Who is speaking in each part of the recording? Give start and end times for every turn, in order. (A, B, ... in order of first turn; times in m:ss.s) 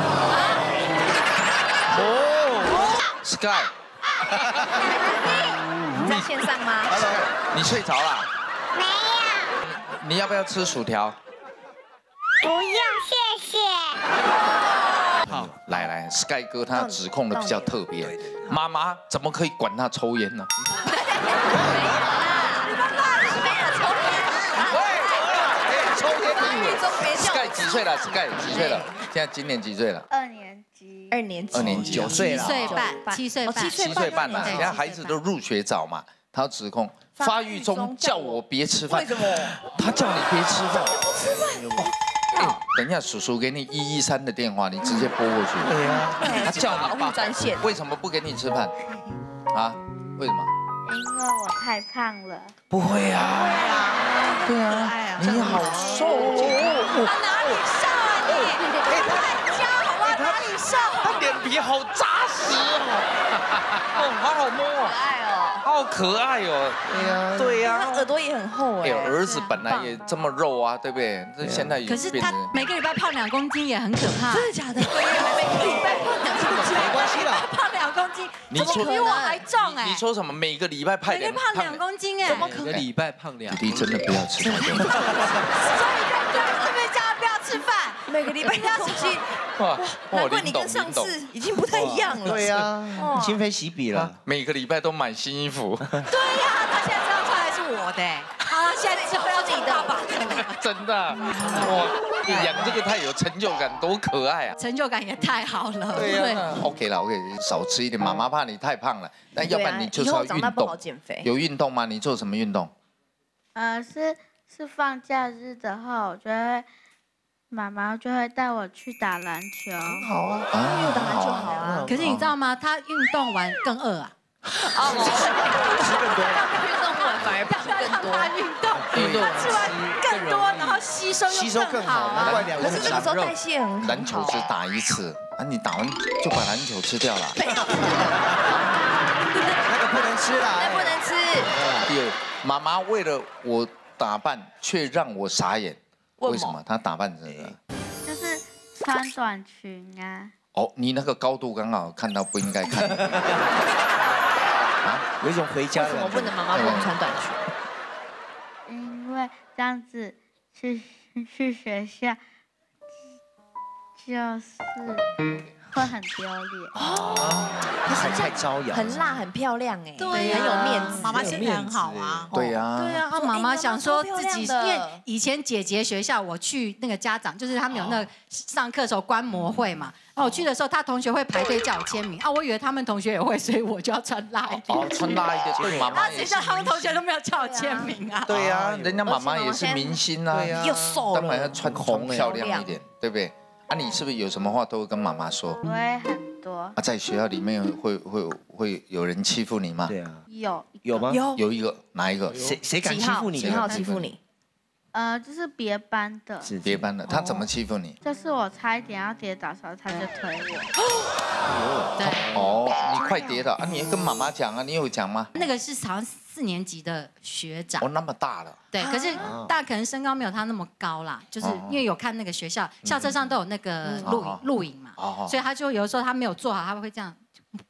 0:00.3-0:00.6 A
0:01.9-0:02.9 B
0:03.2-0:03.7 C
0:04.3-0:04.8 B
0:04.7-0:05.6 D
0:04.9-0:05.3 E
0:06.0-0:07.0 E
0:06.9-0:07.3 B
0:07.0-0:08.3 C
0:08.7-0:09.6 D
0:09.7-0:11.2 C
0:12.4-0:14.0 D
0:15.3-0:15.6 F
0:15.3-0:15.6 B
0:15.6-0:20.5 C
0:16.7-0:17.8 E
0:18.0-0:18.4 B
0:20.8-0:29.0 E
0:21.5-0:22.3 B
0:24.6-0:26.0 C
0:25.3-0:26.9 B
0:27.1-0:30.1 C
0:28.5-0:28.8 A
0:30.1-0:31.2 G
0:31.1-0:34.9 E
0:31.5-0:32.8 C
0:31.6-0:32.7 B
0:32.3-0:35.2 A
0:33.7-0:41.0 C
0:37.2-0:39.6 E
0:41.2-0:41.8 E
0:41.5-0:41.9 B
0:42.4-0:48.8 C
0:45.6-0:46.4 B
0:46.0-0:47.7 E
0:49.5-0:50.5 C
0:50.8-0:52.5 G
0:52.7-0:53.9 C
0:53.8-1:01.3 A
0:54.4-0:57.1 C
0:55.6-0:56.5 E
0:58.9-0:59.2 C
1:00.0-1:00.5 C
1:01.0-1:05.0 C
1:04.7-1:05.6 E
1:05.6-1:08.1 C
1:06.9-1:07.6 B
1:06.9-1:10.0 E
1:08.8-1:12.6 C
1:09.2-1:09.6 A
1:11.4-1:11.7 B
1:11.8-1:14.6 A
1:14.3-1:17.0 E
1:15.4-1:20.0 A
1:16.7-1:17.5 B
1:18.5-1:19.0 C
1:18.5-1:19.4 E
1:19.5-1:22.9 C
1:21.0-1:22.5 A
1:22.3-1:22.6 E
1:22.3-1:24.3 F
1:23.4-1:25.1 C
1:25.4-1:29.2 A
1:28.1-1:33.4 E
1:29.6-1:31.2 C
1:31.7-1:34.2 B
1:33.9-1:35.9 C
1:36.1-1:40.6 A
1:38.9-1:40.0 E
1:40.6-1:44.6 C
1:41.3-1:41.7 A
1:42.3-1:42.6 E
1:44.6-1:46.5 A
1:45.9-1:52.7 C
1:46.0-1:46.6 E
1:49.4-1:51.3 E
1:53.6-1:56.7 G
1:57.5-2:00.1 G
1:59.8-2:00.5 B
2:00.5-2:02.0 E
2:00.5-2:02.3 C
2:01.4-2:02.0 B
2:01.8-2:04.1 A
2:04.7-2:08.3 E
2:04.8-2:06.6 B
2:04.9-2:12.7 A
2:08.9-2:09.3 C
2:08.9-2:10.8 F
2:11.3-2:13.2 B
2:12.2-2:13.0 C
2:12.5-2:14.5 E
2:13.0-2:13.4 F
2:13.8-2:17.4 C
2:17.4-2:18.6 E
2:17.8-2:18.4 B
2:19.3-2:19.8 E
2:19.6-2:21.9 B
2:20.5-2:21.5 E
2:21.8-2:27.6 C
2:26.2-2:26.6 E
2:28.0-2:30.3 G
2:30.5-2:33.3 C
2:35.2-2:36.5 B
2:35.7-2:37.4 E
2:36.5-2:37.0 C
2:38.7-2:42.2 G
2:44.0-2:45.1 G
2:45.7-2:46.8 G
2:46.8-2:47.6 C
2:46.8-2:47.2 E
2:47.2-2:49.2 B
2:47.9-2:51.2 E
2:50.0-3:05.3 A
2:50.2-2:52.3 F
2:51.0-2:51.5 B
2:52.3-2:53.0 C
2:53.2-2:55.0 E
3:04.7-3:06.6 C
3:05.5-3:05.9 B
3:05.9-3:08.3 A
3:06.1-3:06.5 E
3:07.3-3:08.0 E
3:08.3-3:15.6 C
3:08.3-3:09.0 B
3:09.0-3:10.0 E
3:10.3-3:12.4 B
3:10.6-3:11.4 E
3:12.1-3:12.8 E
3:15.6-3:16.8 G
3:16.8-3:19.9 C
3:19.8-3:20.2 B
3:20.3-3:21.2 G
3:20.8-3:21.2 B
3:21.1-3:21.4 E
3:21.3-3:22.6 C
3:22.4-3:23.9 B
3:22.8-3:24.2 E
3:23.3-3:24.1 C
3:24.9-3:26.5 G
3:26.4-3:27.5 B
3:26.6-3:28.0 C
3:28.0-3:30.7 G
3:31.5-3:32.5 B
3:32.0-3:32.3 A
3:32.2-3:35.3 C
3:35.4-3:37.9 A
3:37.8-3:38.6 C
3:38.7-3:47.2 A
3:38.8-3:39.2 E
3:39.2-3:39.5 B
3:41.4-3:41.8 C
3:43.8-3:44.1 E
3:44.0-3:44.4 C
3:45.0-3:45.4 C